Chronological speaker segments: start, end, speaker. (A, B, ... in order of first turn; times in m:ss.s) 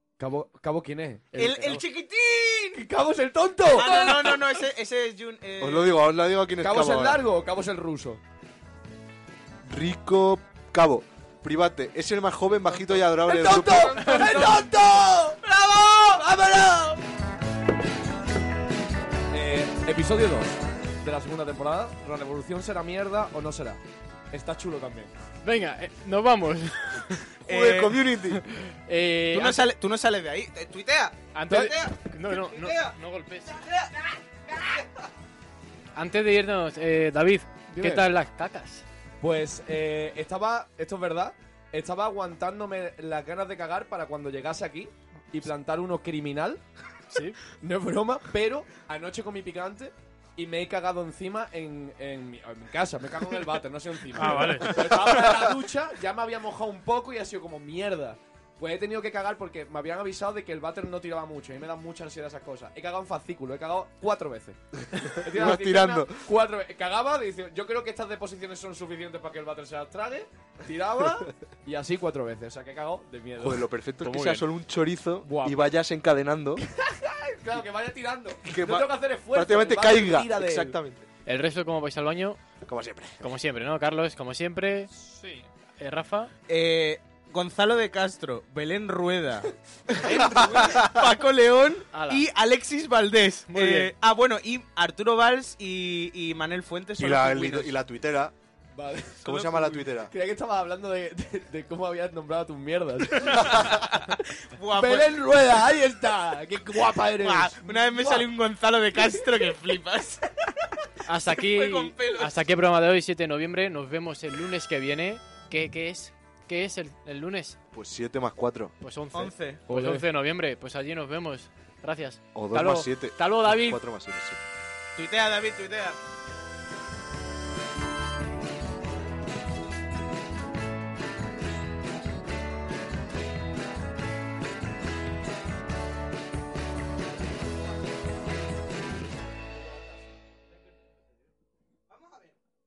0:00.2-0:01.8 A
0:01.4-0:02.8 B
0:02.7-0:04.4 A
0:03.7-0:05.9 B
0:05.6-0:07.2 C
0:06.6-0:08.2 A
0:09.6-0:14.0 C
0:12.7-0:14.8 D
0:13.1-0:15.4 A
0:15.4-0:16.5 B
0:16.4-0:17.0 A
0:19.3-0:25.1 A
0:25.4-0:27.4 E
0:27.5-0:28.0 B
0:27.5-0:28.4 C
0:28.2-0:29.6 E
0:29.3-0:32.9 B
0:31.3-0:33.6 E
0:33.5-0:34.8 B
0:35.9-0:38.8 E
0:37.7-0:38.0 A
0:39.2-0:46.6 A
0:47.1-0:47.4 E
0:47.6-1:13.6 A
0:54.1-0:55.2 E
1:05.2-1:06.2 C
1:13.4-1:16.6 C
1:14.0-1:14.5 E
1:15.2-1:15.7 A
1:16.7-1:20.8 A
1:18.4-1:21.1 C
1:21.2-1:22.4 E
1:22.6-1:23.3 C
1:23.2-1:24.9 E
1:24.9-1:25.5 D
1:25.8-1:26.3 E
1:26.5-1:37.7 B
1:30.1-1:30.7 A
1:30.1-1:30.9 D
1:31.9-1:32.2 E
1:33.5-1:33.9 E
1:37.0-1:38.3 C
1:38.7-1:43.8 A
1:39.2-1:40.1 C
1:43.2-1:45.2 B
1:44.7-1:48.3 A
1:47.2-1:50.2 B
1:51.0-1:57.6 E
1:51.3-1:52.4 B
1:57.7-1:58.7 C
1:58.8-2:03.8 E
1:59.1-1:59.6 B
1:59.7-2:00.1 A
2:02.3-2:04.4 C
2:04.9-2:06.0 B
2:21.9-2:22.4 B